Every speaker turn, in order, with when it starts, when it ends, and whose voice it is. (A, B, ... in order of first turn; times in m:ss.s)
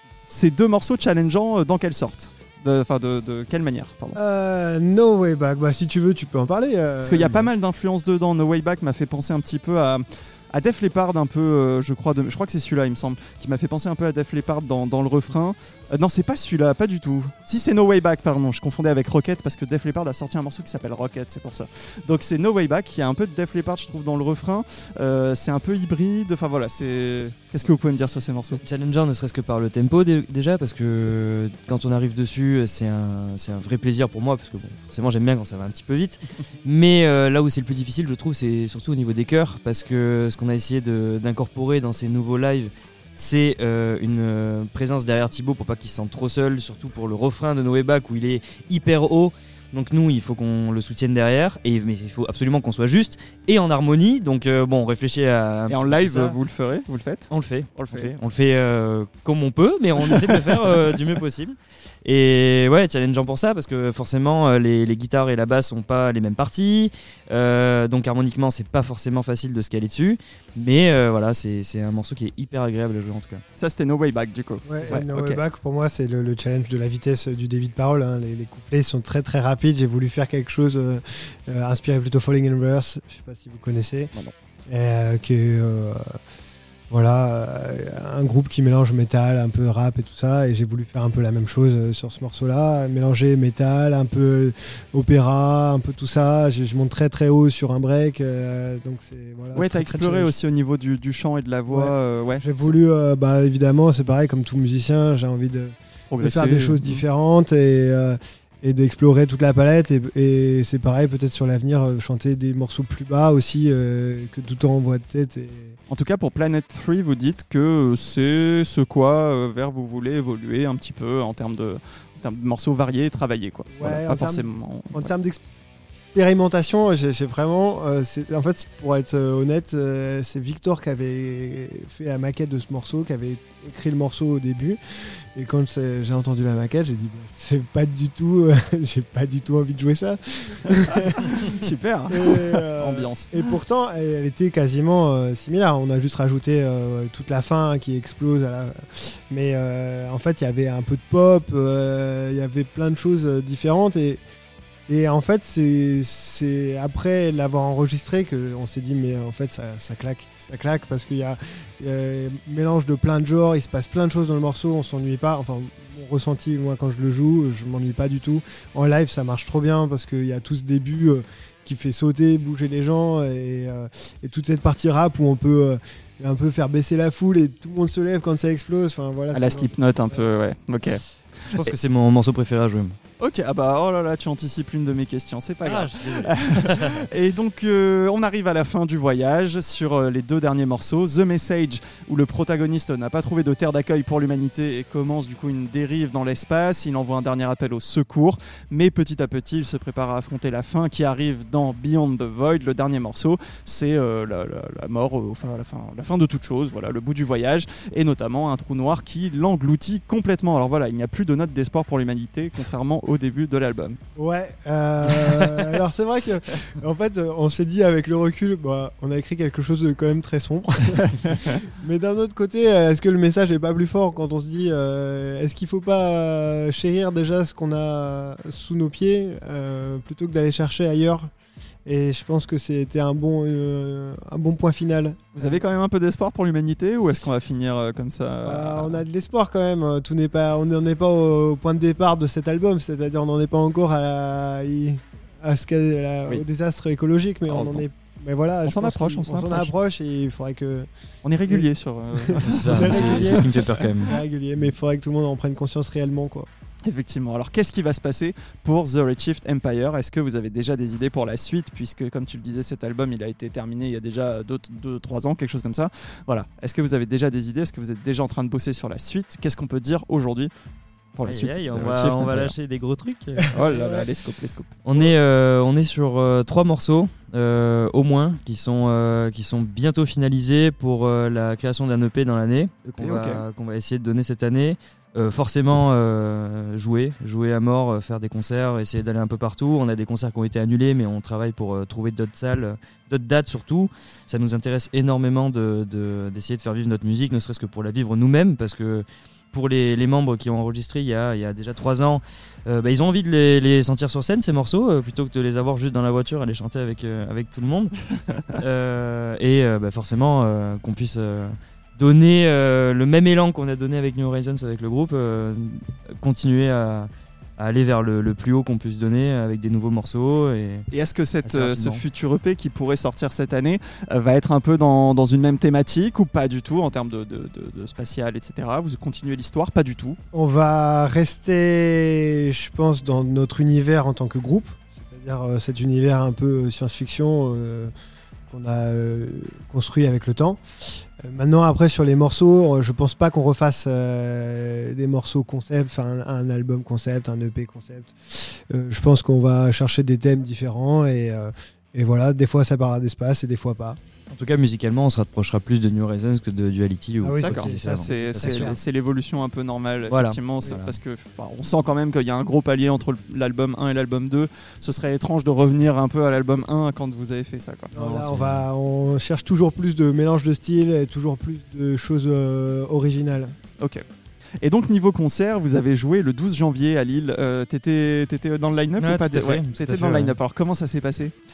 0:00.3-0:04.2 A
0:04.2-0:07.5 B
0:07.0-0:28.6 A
0:28.5-0:56.4 C
0:55.7-0:58.1 A
0:57.3-1:13.4 C
1:13.6-1:15.4 A
1:14.6-1:24.1 B
1:24.7-1:26.2 B
1:26.9-1:40.3 B
1:39.5-1:42.8 A
1:41.7-1:55.8 B
1:46.1-1:47.0 A
1:55.9-2:05.1 A
2:03.8-2:05.4 B
2:06.1-2:21.6 B
2:21.2-2:23.3 A
2:22.1-2:34.2 B
2:34.9-3:00.2 B
2:59.3-3:01.7 A
3:01.5-3:03.0 C
3:03.2-3:34.0 A
3:05.6-3:07.1 C
3:34.2-3:51.3 B
3:35.1-3:35.7 A
3:41.3-3:41.6 A
3:51.9-3:55.6 B
3:55.4-3:59.0 A
3:58.4-4:10.9 B
4:07.5-4:07.8 A
4:08.6-4:09.7 A
4:11.2-4:14.1 A
4:11.5-4:16.5 B
4:12.4-4:14.1 C
4:16.8-4:30.5 A
4:31.2-4:32.5 A
4:31.3-4:33.5 C
4:33.5-4:34.1 B
4:33.5-4:35.1 A
4:34.8-5:20.9 C
4:43.0-4:43.4 A
5:20.9-5:30.2 A
5:21.4-5:22.0 C
5:30.3-5:37.9 B
5:38.5-5:54.0 B
5:54.3-5:58.8 C
5:57.2-5:58.8 B
5:57.4-6:07.9 A
6:00.1-6:01.0 C
6:07.9-6:13.6 B
6:08.0-6:08.7 C
6:13.8-6:14.0 A
6:14.6-6:21.3 A
6:19.0-6:20.4 C